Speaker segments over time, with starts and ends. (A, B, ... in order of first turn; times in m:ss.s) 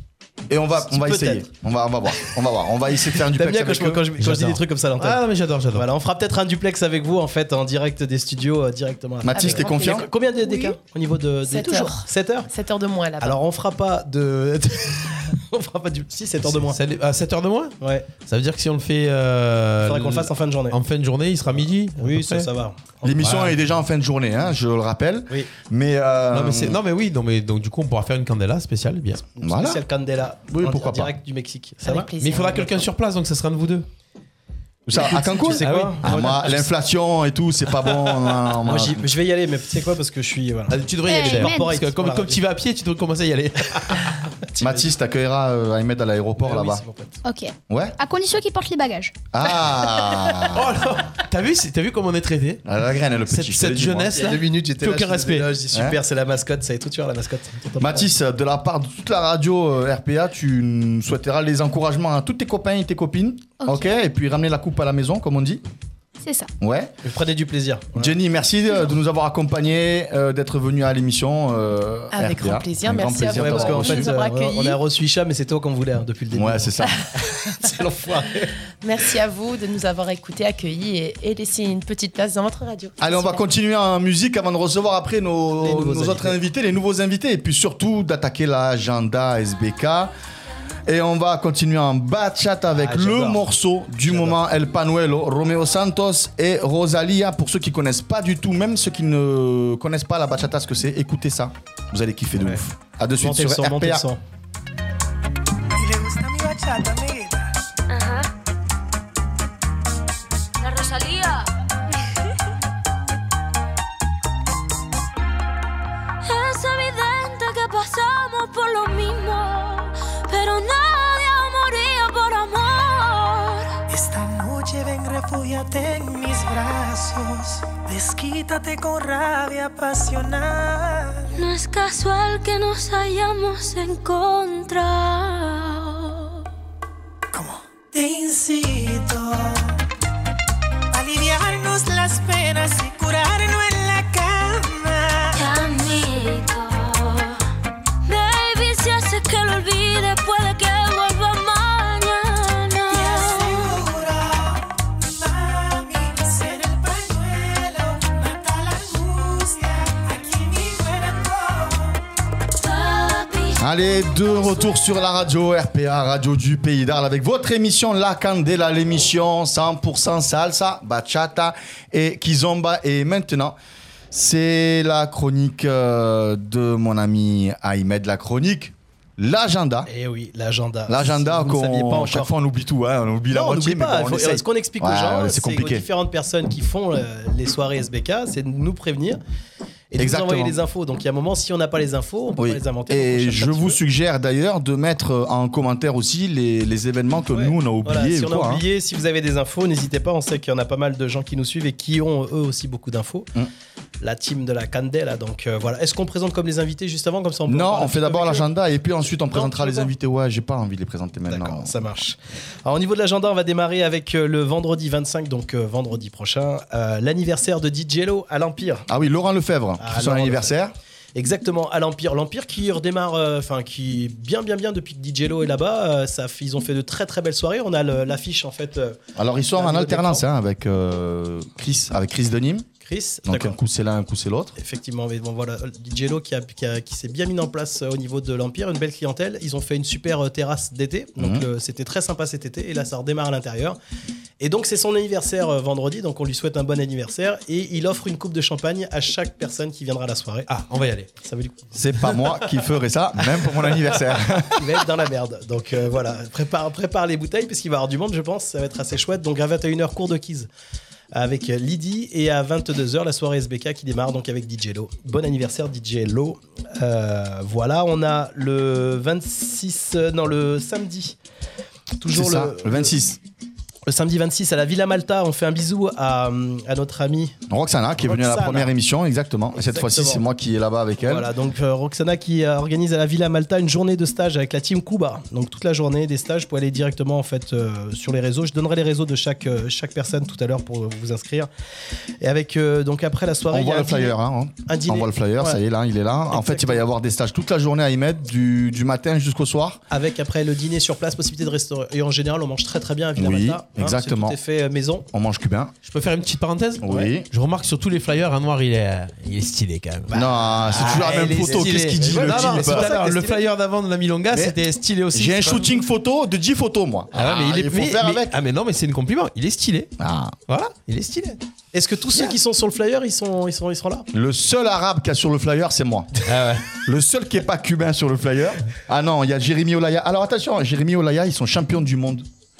0:00.5-0:04.1 A
0:00.8-0:01.5 B
0:03.2-0:12.5 B
0:04.2-0:05.9 C
0:09.2-0:10.1 A
0:09.3-0:10.8 D
0:11.5-0:13.4 D
0:13.2-0:16.8 B
0:16.4-0:22.5 C
0:17.8-0:18.1 B
0:19.8-0:20.8 B
0:22.0-0:23.6 B
0:23.0-0:26.8 A
0:26.3-0:29.3 C
0:29.4-0:32.1 B
0:29.4-0:29.8 A
0:30.5-0:31.1 A
0:31.8-0:32.7 D
0:32.2-0:33.9 C
0:34.9-0:39.1 A
0:34.9-0:36.7 B
0:35.6-0:36.4 C
0:38.6-0:42.4 B
0:40.7-0:44.2 C
0:41.1-0:41.7 E
0:44.5-0:44.9 B
0:44.6-0:46.8 A
0:46.4-0:47.2 B
0:47.2-0:49.2 E
0:47.7-0:48.0 A
0:49.3-0:50.7 A
0:50.5-0:52.6 C
0:52.6-0:54.2 A
0:53.3-0:55.6 C
0:54.1-0:58.1 B
0:55.7-0:56.0 A
0:57.8-1:05.6 A
1:03.6-1:03.9 E
1:06.2-1:06.5 E
1:06.6-1:07.0 A
1:07.0-1:08.2 B
1:08.0-1:14.1 A
1:12.1-1:14.8 D
1:13.3-1:16.7 B
1:16.3-1:16.9 A
1:17.5-1:18.5 B
1:18.8-1:23.4 D
1:23.0-1:30.1 A
1:25.6-1:26.4 B
1:30.9-1:44.0 A
1:32.8-1:33.4 B
1:34.0-1:34.4 B
1:42.4-1:42.6 B
1:43.2-1:44.2 B
1:47.9-1:48.3 F
1:50.6-1:51.5 F
1:56.2-2:03.7 F
2:04.0-2:04.7 G
2:07.9-2:11.0 G
2:11.4-2:16.4 F
2:18.0-2:19.4 G
2:21.0-2:25.0 G
2:25.3-2:27.4 F
2:28.1-2:33.7 F
2:33.0-2:33.7 G
2:42.6-2:44.7 F
2:43.6-2:53.6 A
2:54.1-2:59.9 A
2:59.9-3:02.3 B
3:00.9-3:05.9 A
3:03.3-3:09.2 B
3:09.9-3:13.8 B
3:10.0-3:10.6 A
3:12.4-3:18.6 A
3:17.3-3:23.3 B
3:24.0-3:28.4 B
3:27.5-3:31.7 A
3:29.3-3:29.9 B
3:31.3-3:38.9 B
3:38.9-3:40.7 A
3:39.8-3:40.6 B
3:41.2-3:49.0 B
3:49.2-3:52.7 A
3:49.6-3:50.2 B
3:52.8-3:53.6 B
3:53.3-3:54.6 A
3:54.6-4:03.8 B
4:01.2-4:01.5 A
4:04.4-4:12.4 B
4:10.5-4:11.1 C
4:11.8-4:14.8 A
4:13.3-4:20.5 B
4:21.1-4:31.2 B
4:32.0-4:32.9 B
4:32.1-4:33.2 A
4:33.9-4:37.4 B
4:37.5-4:41.3 A
4:38.0-4:38.7 B
4:39.5-4:40.2 B
4:41.0-4:51.5 B
4:52.2-4:55.6 B
4:53.5-4:59.8 A
4:56.3-4:56.8 B
4:59.9-5:05.1 B
5:03.2-5:04.4 A
5:05.1-5:05.7 A
5:05.8-5:15.8 C
5:06.8-5:07.3 A
5:10.1-5:13.4 B
5:10.1-5:13.0 A
5:14.3-5:14.6 A
5:15.1-5:18.4 A
5:17.1-5:19.9 C
5:20.0-5:20.4 A
5:20.5-5:21.4 C
5:21.7-5:24.1 B
5:22.1-5:22.4 C
5:24.1-5:26.2 A
5:26.3-5:26.8 C
5:26.8-5:32.3 A